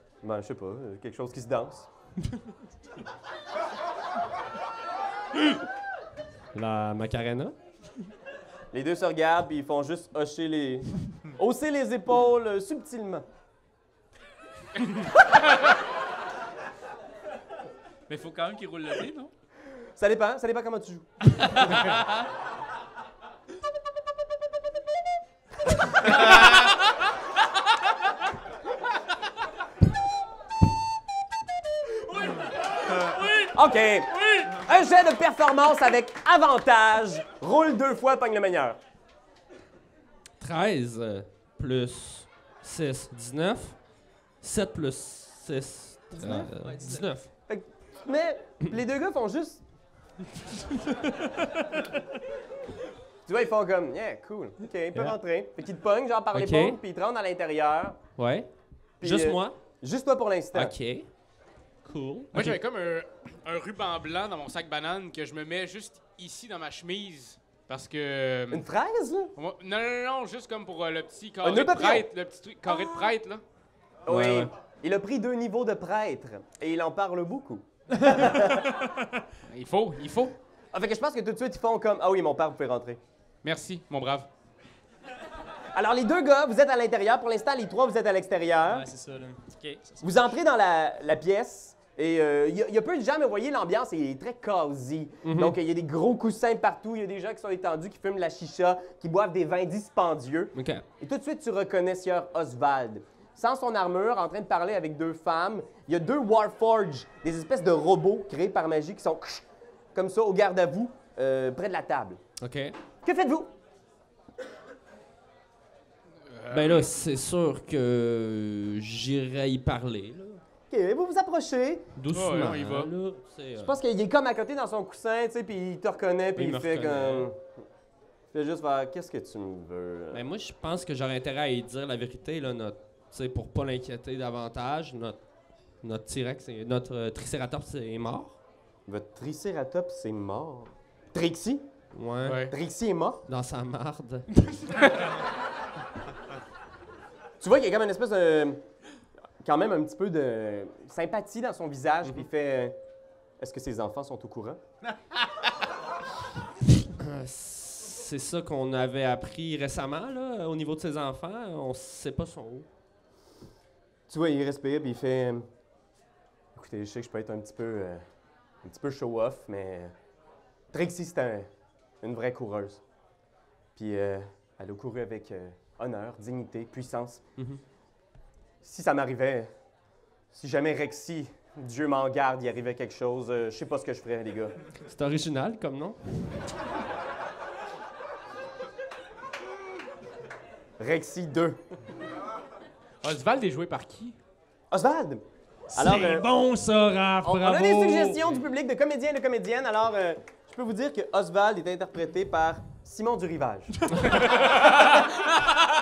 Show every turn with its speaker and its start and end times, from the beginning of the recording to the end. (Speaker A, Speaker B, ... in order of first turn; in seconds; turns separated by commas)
Speaker A: 0.2-1.9, Speaker B: 6.5-7.5, Speaker A: 8.7-13.2, Speaker C: 18.1-19.3, Speaker A: 20.0-21.1, Speaker C: 21.4-22.1, Speaker A: 33.5-38.8, Speaker B: 40.4-43.8, Speaker B: 44.4-47.3, Speaker D: 46.2-47.0, Speaker A: 47.5-49.6, Speaker D: 51.0-51.6, Speaker A: 53.3-58.0, Speaker B: 56.3-56.8, Speaker B: 58.2-58.5, Speaker A: 59.0-60.7, Speaker B: 59.0-59.6, Speaker B: 60.5-61.1, Speaker B: 61.8-62.5, Speaker E: 62.3-68.7, Speaker A: 68.5-69.3, Speaker E: 69.3-73.4, Speaker A: 71.4-72.1, Speaker A: 72.6-73.1, Speaker A: 74.0-78.7, Speaker B: 74.1-74.5, Speaker E: 79.5-80.3, Speaker A: 80.7-83.0, Speaker E: 83.4-84.3, Speaker A: 85.7-88.9, Speaker D: 88.7-90.4, Speaker A: 90.0-112.2, Speaker B: 95.2-95.6, Speaker B: 100.5-100.8, Speaker B: 112.4-112.8, Speaker A: 113.0-113.5, Speaker E: 116.2-116.9, Speaker B: 116.5-120.4, Speaker A: 120.7-121.9, Speaker B: 122.0-123.8, Speaker E: 122.1-122.9, Speaker A: 123.6-127.4, Speaker B: 126.3-127.3, Speaker A: 128.3-130.2, Speaker B: 130.1-135.2, Speaker B: 135.8-138.4, Speaker A: 138.9-141.6, Speaker B: 141.9-142.5, Speaker E: 142.2-142.5, Speaker A: 142.5-143.2, Speaker B: 143.3-144.3, Speaker A: 147.4-148.6, Speaker A: 149.4-152.7, Speaker A: 153.4-154.6, Speaker B: 157.0-162.7, Speaker A: 164.1-165.4, Speaker A: 166.5-168.0, Speaker A: 168.6-169.9, Speaker A: 170.7-171.5, Speaker A: 172.0-172.8, Speaker A: 173.8-177.2, Speaker A: 178.6-179.5, Speaker A: 180.3-184.5, Speaker B: 184.8-186.0, Speaker A: 190.8-191.6, Speaker E: 193.0-194.2, Speaker A: 194.7-195.2, Speaker D: 195.7-198.2, Speaker A: 195.7-196.3, Speaker A: 197.2-203.8, Speaker D: 203.9-205.0